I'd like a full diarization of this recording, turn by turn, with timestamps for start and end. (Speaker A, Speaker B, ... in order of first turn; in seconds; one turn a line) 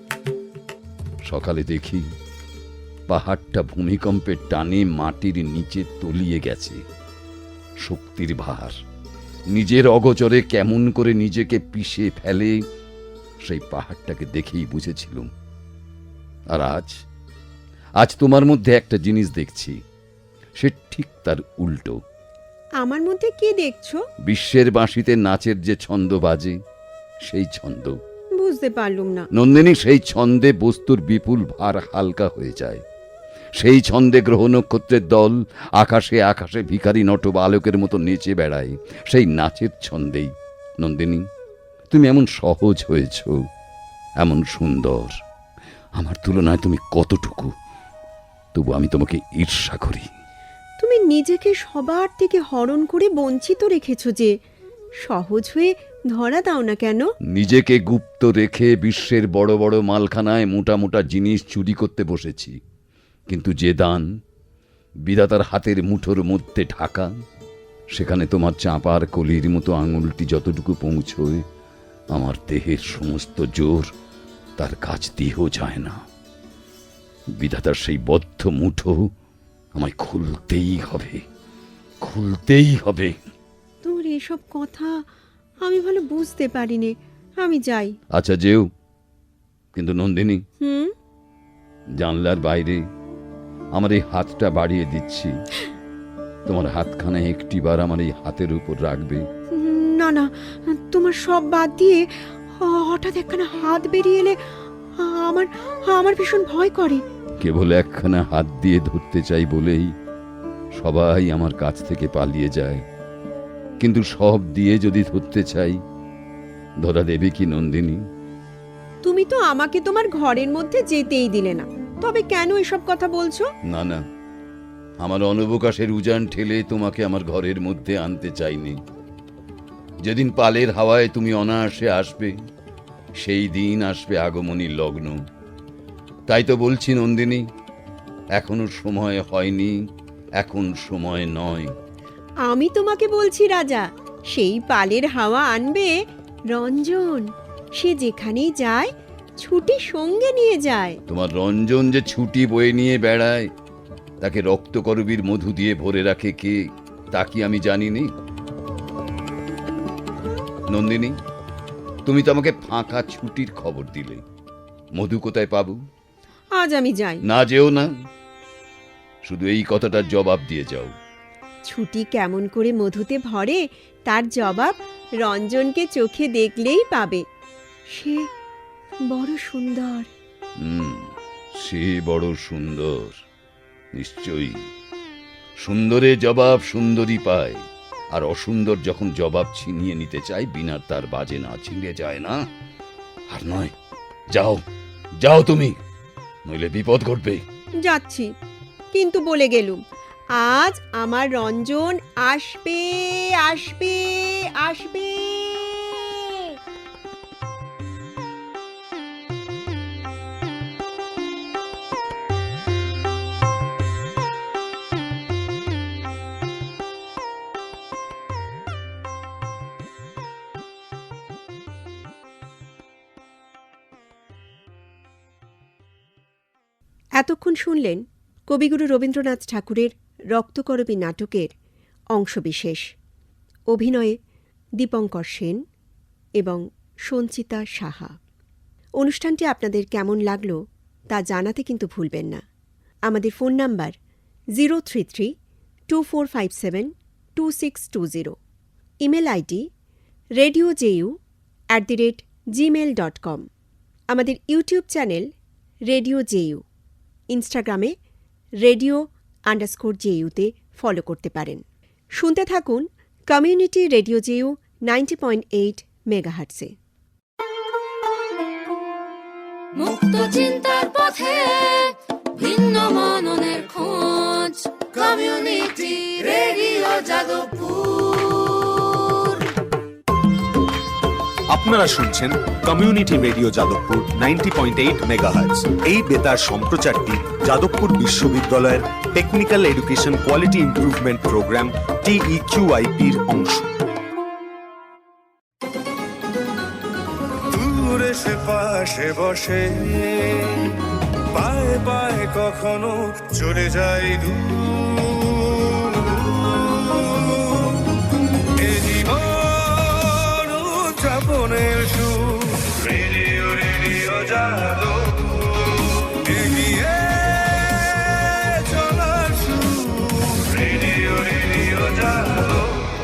Speaker A: 1.3-2.0
Speaker A: 3.1-6.8
Speaker A: 7.8-8.7
Speaker A: 9.5-12.6
Speaker A: 13.4-15.3
Speaker A: 16.5-16.9
Speaker A: 18.0-19.7
Speaker A: 20.6-22.0
Speaker B: 22.8-24.0
Speaker A: 24.2-26.6
Speaker A: 27.2-28.0
Speaker B: 28.4-29.2
Speaker A: 29.4-32.8
Speaker A: 33.6-40.3
Speaker A: 40.8-41.2
Speaker A: 41.9-43.3
Speaker A: 44.2-45.1
Speaker A: 46.0-47.5
Speaker A: 48.5-50.1
Speaker B: 50.8-54.3
Speaker B: 55.0-57.0
Speaker A: 57.3-62.5
Speaker A: 63.3-64.0
Speaker A: 65.1-67.1
Speaker A: 67.9-71.4
Speaker A: 72.1-73.9
Speaker A: 74.6-76.0
Speaker A: 77.4-79.0
Speaker A: 79.8-81.2
Speaker A: 82.0-83.1
Speaker B: 83.8-85.0
Speaker B: 85.6-87.9
Speaker A: 88.1-88.6
Speaker A: 89.7-90.4
Speaker B: 90.6-90.9
Speaker A: 92.0-92.8
Speaker A: 93.7-95.3
Speaker A: 96.5-99.2
Speaker B: 99.5-104.4
Speaker B: 105.0-107.0
Speaker A: 107.4-109.9
Speaker A: 110.8-112.8
Speaker A: 113.8-115.8
Speaker A: 116.8-118.0
Speaker B: 119.0-123.5
Speaker A: 123.7-124.0
Speaker A: 125.0-128.8
Speaker A: 130.0-132.3
Speaker A: 133.2-135.2
Speaker A: 136.3-137.4
Speaker A: 138.4-139.7
Speaker A: 140.4-141.7
Speaker B: 142.5-145.9
Speaker B: 146.5-148.9
Speaker B: 149.4-151.0
Speaker A: 151.1-153.5
Speaker A: 154.2-156.6
Speaker A: 157.1-158.1
Speaker A: 160.7-161.1
Speaker A: 162.1-164.2
Speaker A: 164.9-165.8
Speaker B: 166.6-167.2
Speaker A: 167.3-167.9
Speaker A: 169.2-170.9
Speaker B: 171.7-177.2
Speaker B: 177.9-178.2
Speaker B: 179.1-180.1
Speaker A: 180.6-183.2
Speaker A: 183.9-184.6
Speaker A: 185.6-187.6
Speaker A: 188.1-192.4
Speaker A: 193.3-193.7
Speaker A: 194.3-194.6
Speaker A: 195.2-195.7
Speaker A: 196.5-197.4
Speaker B: 197.8-198.3
Speaker B: 198.9-199.8
Speaker B: 200.4-206.5
Speaker B: 227.2-231.5
Speaker B: 232.1-232.8
Speaker B: 233.7-234.2
Speaker B: 234.8-235.6
Speaker B: 236.4-238.1
Speaker B: 239.0-240.6
Speaker B: 241.1-242.4
Speaker B: 243.1-243.9
Speaker B: 244.6-245.3
Speaker B: 245.9-248.3
Speaker B: 249.0-249.6
Speaker B: 250.4-251.1
Speaker B: 251.7-253.4
Speaker B: 254.1-255.3
Speaker B: 255.9-256.6
Speaker B: 257.3-257.9
Speaker B: 258.6-261.6
Speaker B: 262.2-266.7
Speaker C: 269.7-279.4
Speaker D: 281.5-293.7
Speaker E: 297.5-300.8
Speaker E: 301.3-307.9
Speaker E: 308.5-322.9